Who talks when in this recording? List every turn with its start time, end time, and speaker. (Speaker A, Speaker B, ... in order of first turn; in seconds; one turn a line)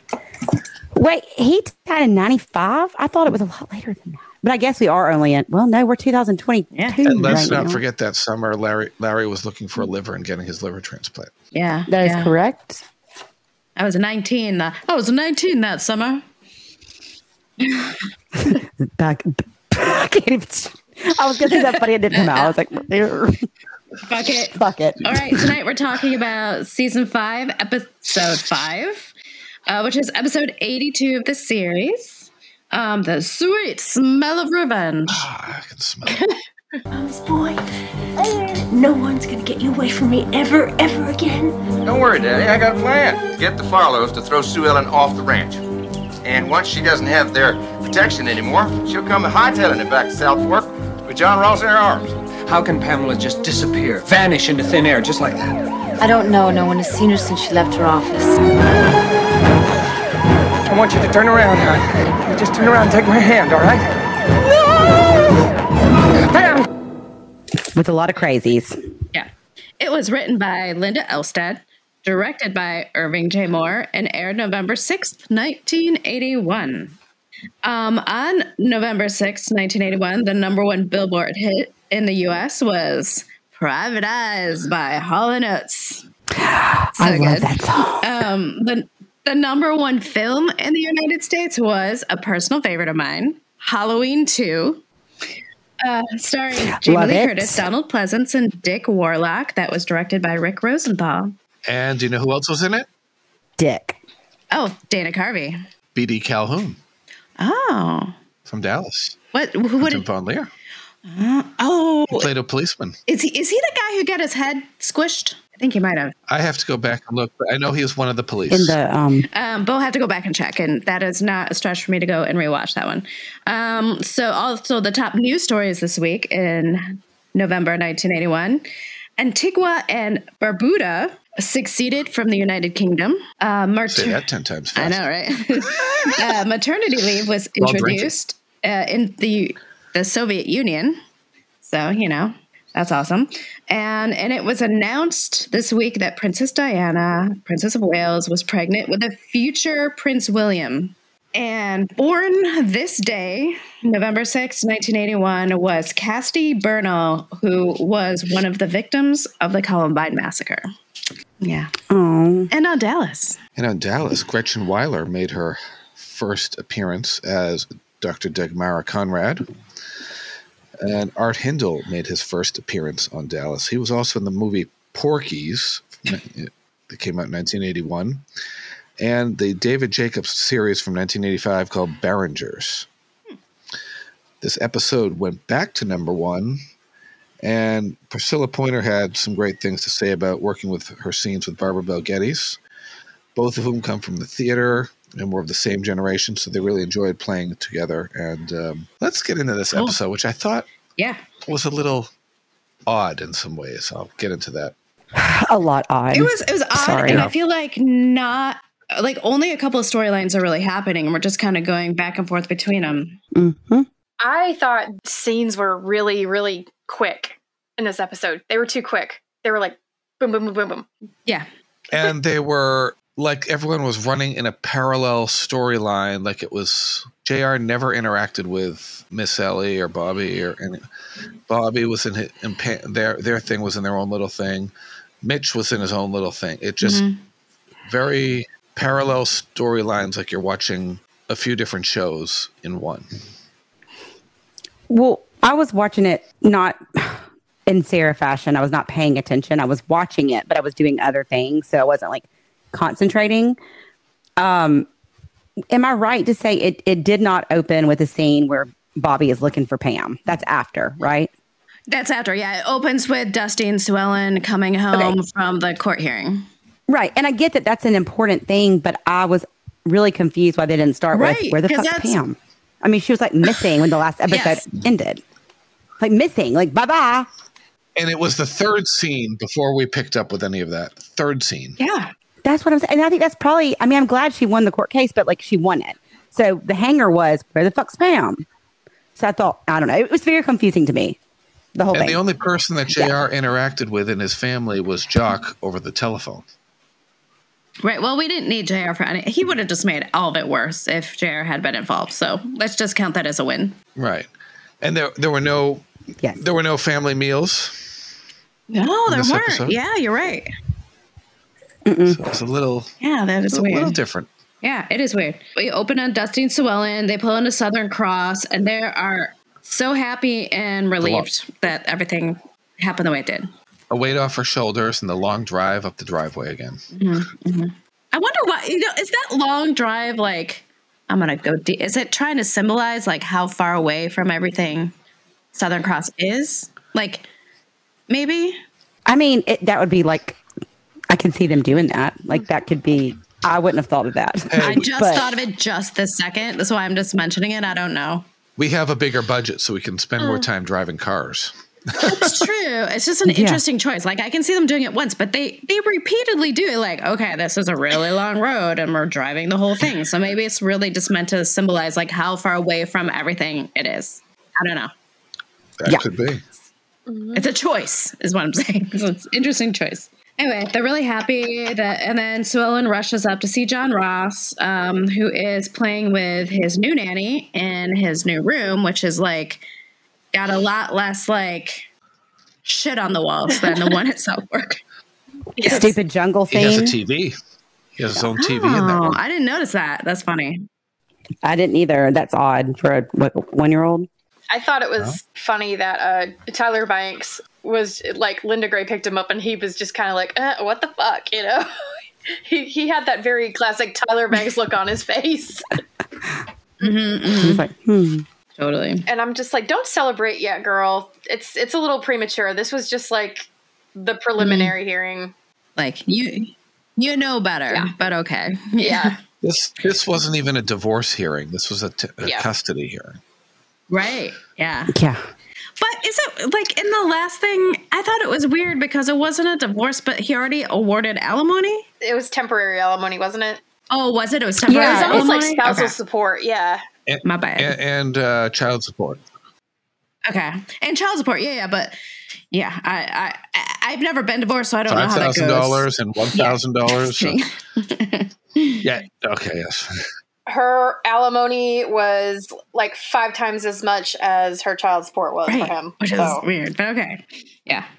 Speaker A: 0.9-7.8
Speaker B: 6.7-7.3
Speaker C: 7.0-11.3
Speaker B: 11.5-12.3
Speaker A: 11.9-12.8
Speaker B: 13.8-16.2
Speaker B: 17.6-18.0
Speaker A: 18.4-23.5
Speaker B: 21.5-22.6
Speaker B: 24.0-29.1
Speaker A: 24.6-25.4
Speaker B: 29.7-35.3
Speaker C: 35.1-36.2
Speaker D: 36.9-37.6
Speaker D: 38.2-41.6
Speaker E: 41.8-45.6
Speaker E: 46.2-52.1
Speaker F: 56.0-58.4
Speaker G: 60.7-61.5
Speaker G: 62.4-63.7
Speaker A: 67.7-68.8
Speaker B: 69.1-76.9
Speaker B: 77.6-86.1
Speaker A: 86.4-88.2
Speaker B: 87.0-94.8
Speaker B: 95.8-101.3
Speaker A: 96.7-97.7
Speaker C: 101.7-102.9
Speaker A: 103.6-104.0
Speaker B: 104.5-105.6
Speaker C: 105.9-106.8
Speaker B: 107.4-108.1
Speaker C: 108.5-109.2
Speaker B: 109.3-110.0
Speaker C: 109.8-110.5
Speaker B: 111.1-112.3
Speaker C: 112.1-113.0
Speaker B: 113.1-116.1
Speaker C: 116.3-118.8
Speaker A: 118.5-119.3
Speaker B: 119.3-128.7
Speaker B: 129.2-134.2
Speaker C: 133.9-135.0
Speaker B: 134.8-141.0
Speaker C: 137.6-138.1
Speaker B: 141.6-160.7
Speaker B: 161.4-161.7
Speaker A: 161.9-162.5
Speaker B: 162.5-163.4
Speaker C: 163.6-169.5
Speaker C: 170.8-178.2
Speaker C: 179.0-182.9
Speaker C: 184.4-186.6
Speaker C: 187.4-192.6
Speaker C: 193.3-200.7
Speaker C: 201.5-202.1
Speaker C: 202.9-204.8
Speaker A: 205.2-207.3
Speaker B: 206.1-213.2
Speaker C: 207.1-207.3
Speaker A: 213.3-213.9
Speaker H: 214.2-220.9
Speaker C: 221.9-230.8
Speaker C: 231.5-237.1
Speaker B: 236.8-237.2
Speaker C: 237.9-243.1
Speaker A: 244.9-253.6
Speaker A: 254.4-254.9
Speaker A: 255.7-261.3
Speaker B: 261.9-266.5
Speaker A: 266.9-275.2
Speaker B: 271.1-272.2
Speaker B: 274.3-274.7
Speaker A: 276.0-277.3
Speaker C: 278.0-281.8
Speaker B: 281.8-282.1
Speaker A: 282.4-288.4
Speaker A: 289.2-291.2
Speaker A: 291.8-292.2
Speaker C: 291.9-296.4
Speaker A: 292.9-293.2
Speaker B: 297.8-303.8
Speaker C: 304.0-307.9
Speaker B: 308.7-310.5
Speaker C: 309.1-309.8
Speaker A: 311.9-312.2
Speaker C: 312.1-312.9
Speaker B: 313.0-314.0
Speaker C: 313.5-314.3
Speaker B: 314.6-323.5
Speaker C: 321.0-321.3
Speaker C: 323.9-326.8
Speaker B: 326.9-334.9
Speaker B: 335.5-337.3
Speaker B: 338.1-338.6
Speaker A: 339.1-340.4
Speaker A: 341.1-345.3
Speaker C: 344.5-344.8
Speaker B: 344.6-348.2
Speaker C: 348.6-352.5
Speaker H: 350.2-350.5
Speaker B: 352.1-364.9
Speaker A: 353.3-353.6
Speaker C: 365.8-366.4
Speaker H: 367.1-367.5
Speaker B: 367.3-379.6
Speaker B: 380.3-381.9
Speaker B: 382.6-384.8
Speaker H: 385.6-385.9
Speaker A: 385.6-387.0
Speaker C: 386.5-387.4
Speaker C: 388.0-389.2
Speaker B: 388.4-390.7
Speaker A: 391.4-394.1
Speaker H: 394.5-401.7
Speaker H: 402.4-405.7
Speaker B: 406.8-407.6
Speaker A: 407.4-408.2
Speaker B: 408.6-409.1
Speaker H: 409.1-415.3
Speaker B: 414.4-414.7
Speaker B: 415.8-419.2
Speaker H: 418.8-419.1
Speaker C: 419.4-423.2
Speaker H: 422.2-422.5
Speaker B: 423.9-424.9
Speaker A: 424.9-425.2
Speaker B: 425.8-431.9
Speaker H: 432.0-433.6
Speaker B: 433.9-435.9
Speaker A: 434.7-435.3
Speaker H: 434.8-436.8
Speaker C: 437.1-439.2
Speaker B: 437.2-437.8
Speaker B: 440.3-442.0
Speaker B: 442.5-448.8
Speaker C: 444.9-447.4
Speaker C: 448.8-450.0
Speaker H: 450.5-456.4
Speaker B: 455.5-457.9